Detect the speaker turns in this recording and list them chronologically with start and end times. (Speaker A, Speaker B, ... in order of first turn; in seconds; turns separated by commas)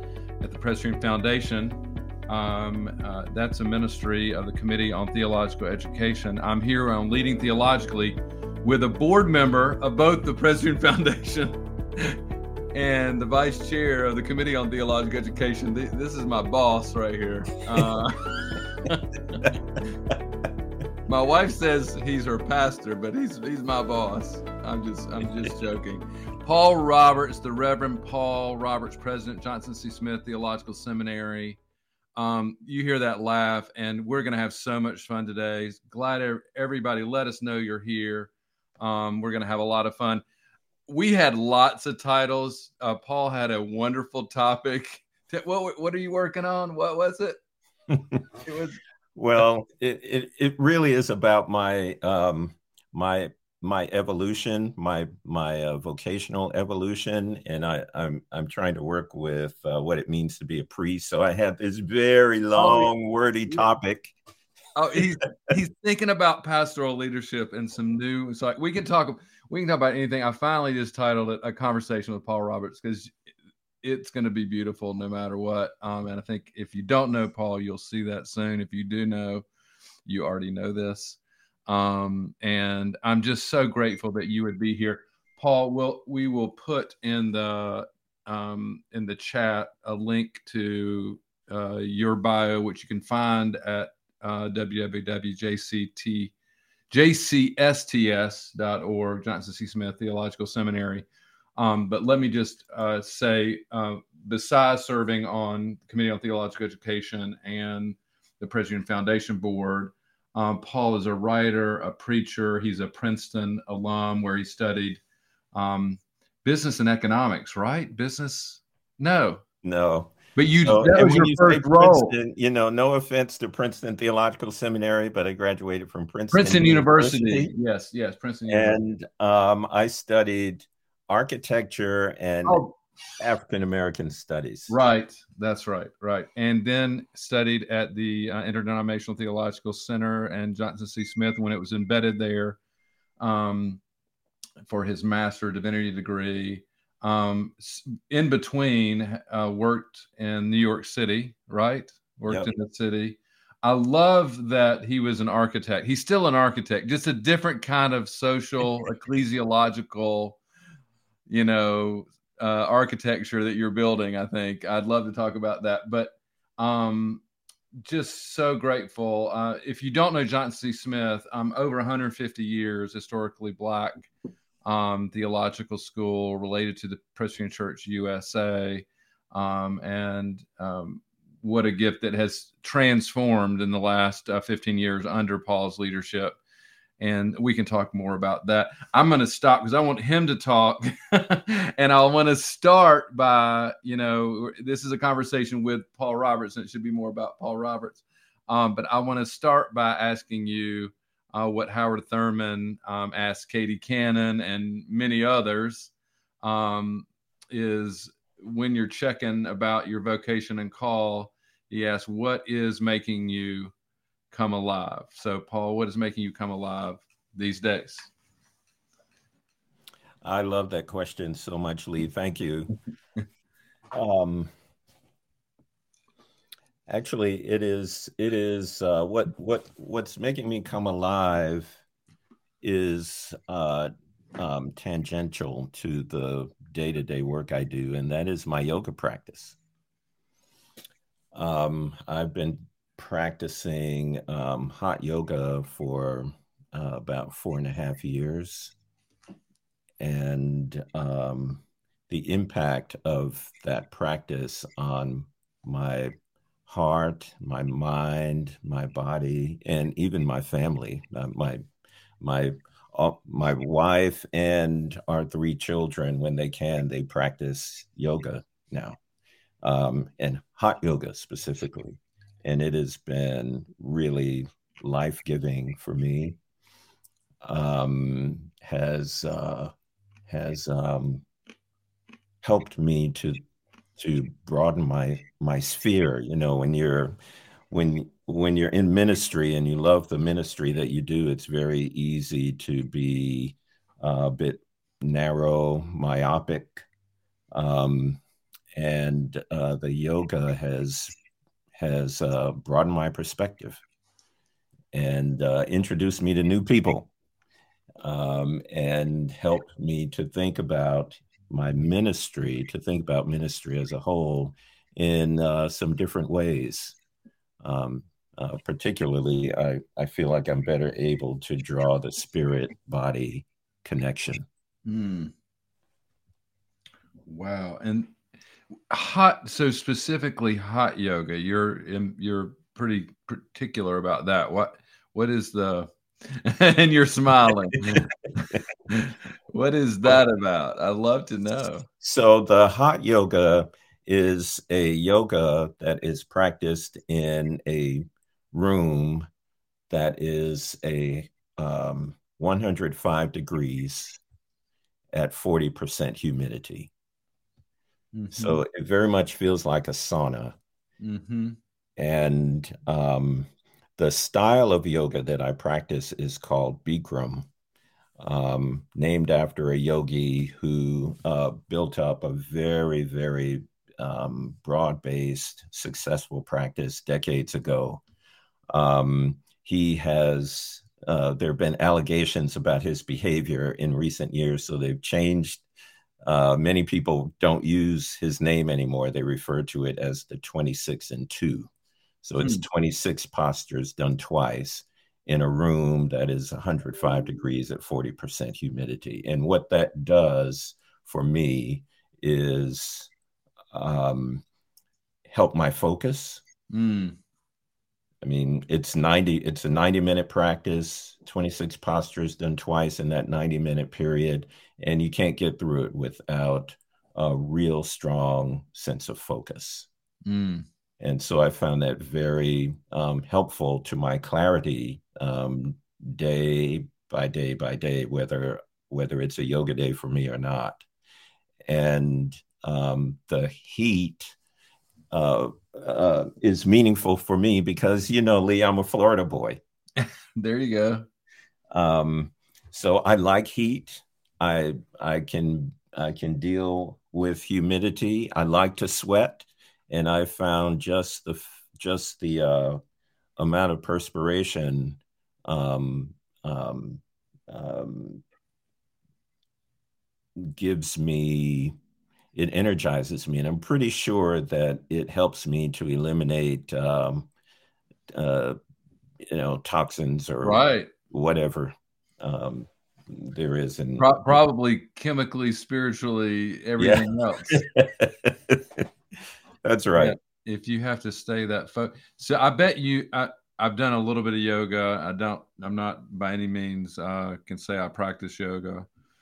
Speaker A: 0.4-12.2, Speaker A: 12.7-19.5, Speaker A: 21.1-31.6, Speaker A: 32.2-40.2, Speaker A: 40.9-47.4, Speaker B: 47.9-48.2, Speaker A: 48.4-48.8, Speaker B: 49.1-64.2, Speaker A: 62.5-62.9, Speaker A: 64.8-73.2, Speaker A: 73.8-79.4, Speaker A: 80.1-96.3, Speaker A: 96.9-101.1, Speaker A: 101.6-115.0, Speaker A: 115.5-119.4, Speaker B: 119.6-127.5, Speaker A: 120.3-122.2, Speaker A: 126.3-128.8, Speaker B: 128.5-132.6, Speaker A: 132.5-132.8, Speaker B: 133.2-134.8, Speaker A: 134.7-142.6, Speaker A: 143.2-143.8, Speaker A: 144.7-160.4, Speaker A: 161.3-167.2, Speaker A: 167.8-174.1, Speaker A: 174.7-186.4, Speaker A: 187.0-213.7, Speaker A: 214.3-218.1, Speaker B: 220.2-222.7, Speaker B: 223.9-224.5, Speaker B: 226.9-231.8, Speaker B: 232.6-239.6, Speaker B: 241.3-248.7, Speaker B: 250.0-256.1, Speaker B: 256.7-261.6, Speaker B: 262.2-269.0, Speaker B: 269.6-276.4, Speaker B: 277.4-279.7, Speaker B: 280.3-281.2, Speaker B: 282.4-283.4, Speaker B: 284.0-287.1, Speaker B: 287.7-296.8, Speaker B: 297.5-298.2, Speaker B: 298.8-301.1, Speaker B: 301.7-303.8, Speaker B: 304.9-307.1, Speaker B: 308.0-316.9, Speaker B: 317.6-324.5, Speaker A: 324.9-325.3, Speaker A: 327.3-328.1, Speaker A: 328.9-341.9, Speaker B: 337.9-338.6, Speaker B: 342.0-349.2, Speaker B: 349.9-354.2, Speaker B: 355.1-356.9, Speaker A: 358.1-358.6, Speaker B: 358.3-360.6, Speaker A: 361.0-361.6, Speaker B: 362.0-367.5, Speaker B: 368.2-378.0, Speaker B: 378.7-385.6, Speaker B: 386.2-391.7, Speaker B: 392.2-403.1, Speaker A: 392.4-392.6, Speaker B: 403.7-404.4, Speaker B: 405.3-406.4, Speaker A: 406.7-407.1, Speaker B: 408.2-419.9, Speaker A: 420.2-420.6, Speaker B: 421.0-430.9, Speaker B: 431.6-434.4, Speaker B: 435.1-439.6, Speaker A: 440.0-441.1, Speaker B: 441.7-452.8, Speaker B: 453.4-458.2, Speaker B: 460.4-461.8, Speaker B: 462.3-467.3, Speaker B: 468.1-468.6, Speaker B: 469.3-474.4, Speaker A: 470.4-470.9, Speaker A: 474.0-477.6, Speaker B: 476.8-478.9, Speaker B: 479.6-480.1, Speaker A: 479.9-488.9